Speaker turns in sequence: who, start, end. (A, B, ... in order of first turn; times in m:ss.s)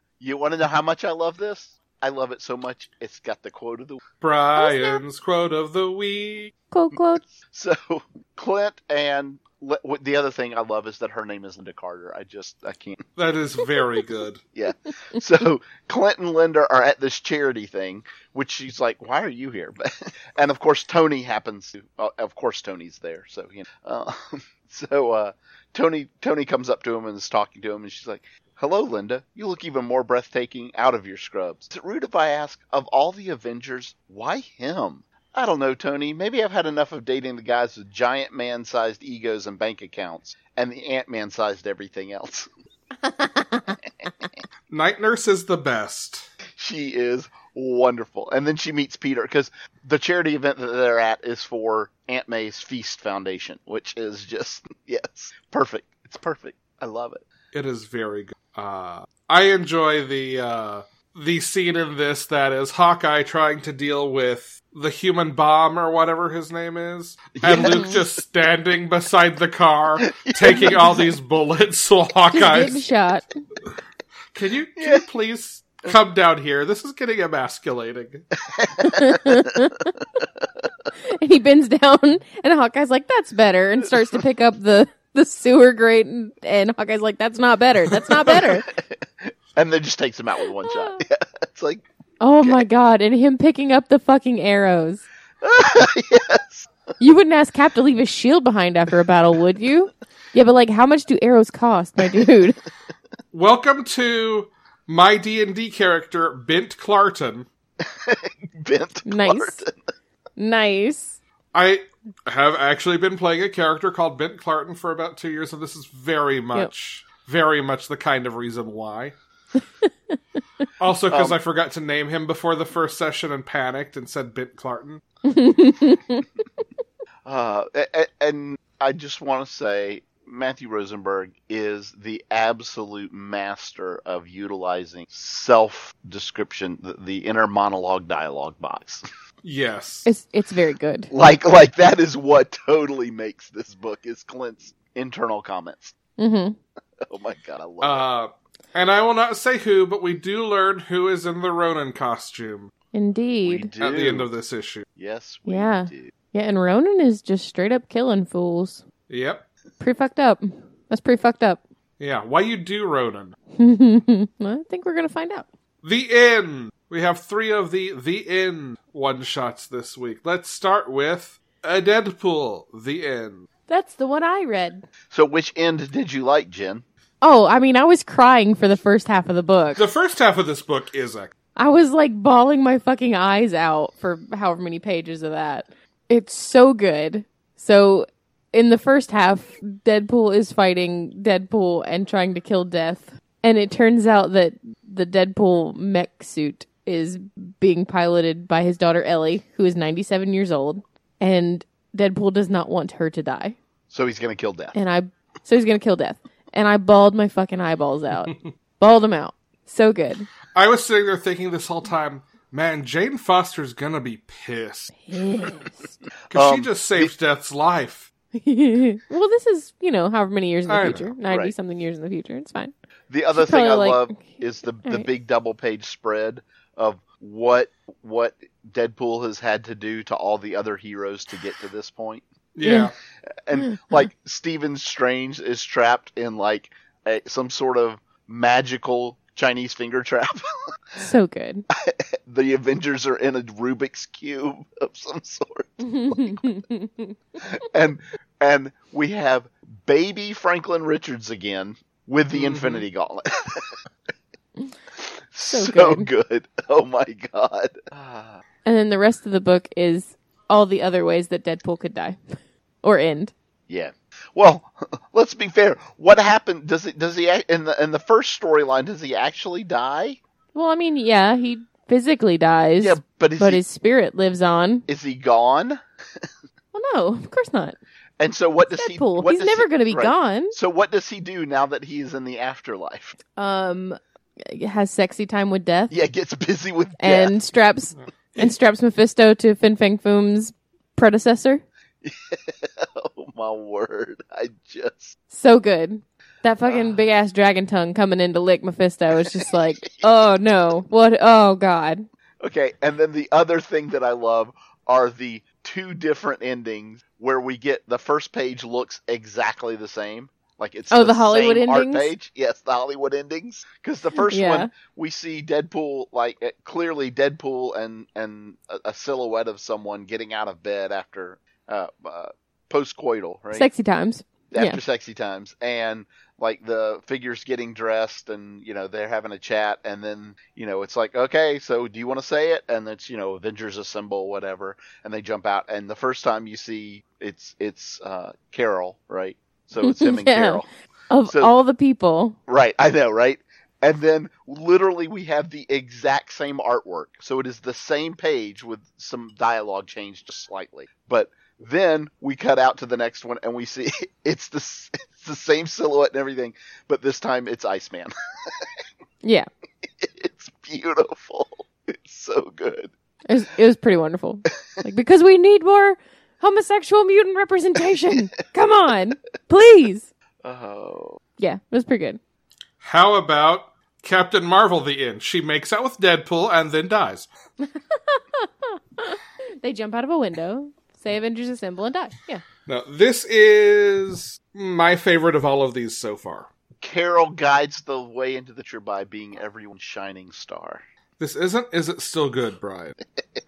0:00.2-0:04.0 A
0:04.2-0:06.5 B
0:04.6-0:05.0 C
0:06.7-0:07.2 C
0:07.4-0:13.0 A
0:13.2-0:14.4 B
0:14.6-0:42.5 A
0:43.0-0:43.8 C
0:44.7-0:46.3 B
0:46.5-0:57.2 A
0:57.5-1:12.8 B
1:07.4-1:08.1 A
1:07.6-1:08.0 C
1:10.0-1:11.1 A
1:10.5-1:11.0 C
1:12.3-1:13.3 C
1:14.3-1:18.3 B
1:14.8-1:15.0 A
1:18.5-1:19.5 A
1:18.8-1:20.0 C
1:21.0-1:28.7 C
1:28.1-1:31.8 A
1:30.6-1:31.0 C
1:32.2-1:35.0 C
1:35.4-1:36.7 A
1:37.0-1:42.6 C
1:43.3-1:47.5 B
1:47.8-1:49.8 A
1:49.1-1:49.6 C
1:50.4-1:51.2 C
1:51.5-1:59.2 B
1:59.9-2:00.2 C
2:00.8-2:05.0 B
2:01.1-2:01.4 A
2:05.2-2:06.3 C
2:07.3-2:19.0 A
2:19.4-2:20.1 B
2:20.1-2:21.1 C
2:21.1-2:26.0 A
2:26.2-2:26.6 C
2:27.0-2:28.1 A
2:27.8-2:32.7 B
2:32.9-2:33.7 C
2:33.4-2:34.3 A
2:33.8-2:34.9 B
2:35.0-2:36.1 A
2:35.5-2:38.8 C
2:39.1-2:39.4 B
2:39.8-2:41.6 C
2:42.0-2:43.4 B
2:43.6-2:45.5 C
2:45.8-2:53.5 B
2:53.7-2:54.8 C
2:55.1-2:56.8 A
2:57.2-2:59.8 C
2:59.8-3:01.3 B
3:01.6-3:23.6 C
3:23.9-3:24.8 A
3:24.7-3:30.3 C
3:30.6-3:35.0 B
3:35.0-3:36.0 C
3:36.3-3:37.1 A
3:36.3-3:38.1 B
3:38.4-3:42.7 C
3:40.7-3:41.1 B
3:41.3-3:41.5 A
3:43.1-3:52.2 A
3:43.3-3:45.1 C
3:52.6-3:52.9 B
3:52.6-3:52.9 C
3:53.4-4:00.6 A
3:53.6-3:53.9 C
4:01.0-4:01.6 C
4:01.7-4:06.4 A
4:05.8-4:07.2 C
4:07.4-4:13.8 A
4:12.3-4:12.9 B
4:15.0-4:18.4 A
4:15.4-4:16.1 C
4:18.6-4:23.3 C
4:23.7-4:30.2 A
4:30.5-4:34.8 C
4:32.8-4:33.6 A
4:34.9-4:36.3 A
4:36.7-4:37.8 C
4:38.2-4:43.2 A
4:38.7-4:40.6 C
4:43.4-4:45.9 C
4:45.9-4:47.3 A
4:47.0-4:51.6 C
4:48.0-4:48.5 B
4:52.0-4:55.2 A
4:55.3-5:02.1 C
4:56.7-4:57.0 A
4:59.2-4:59.5 A
5:02.4-5:23.7 A
5:10.9-5:12.1 C
5:14.2-5:14.7 C
5:23.5-5:24.8 C
5:24.5-5:40.7 A
5:39.8-5:42.4 C
5:41.3-5:41.5 A
5:42.5-5:58.7 A
5:59.8-6:02.9 A
6:03.3-6:10.1 C
6:10.4-6:11.2 A
6:11.4-6:12.2 C
6:12.8-6:17.3 B
6:17.6-6:22.4 C
6:22.7-6:26.5 B
6:26.8-6:30.8 A
6:31.2-6:33.0 B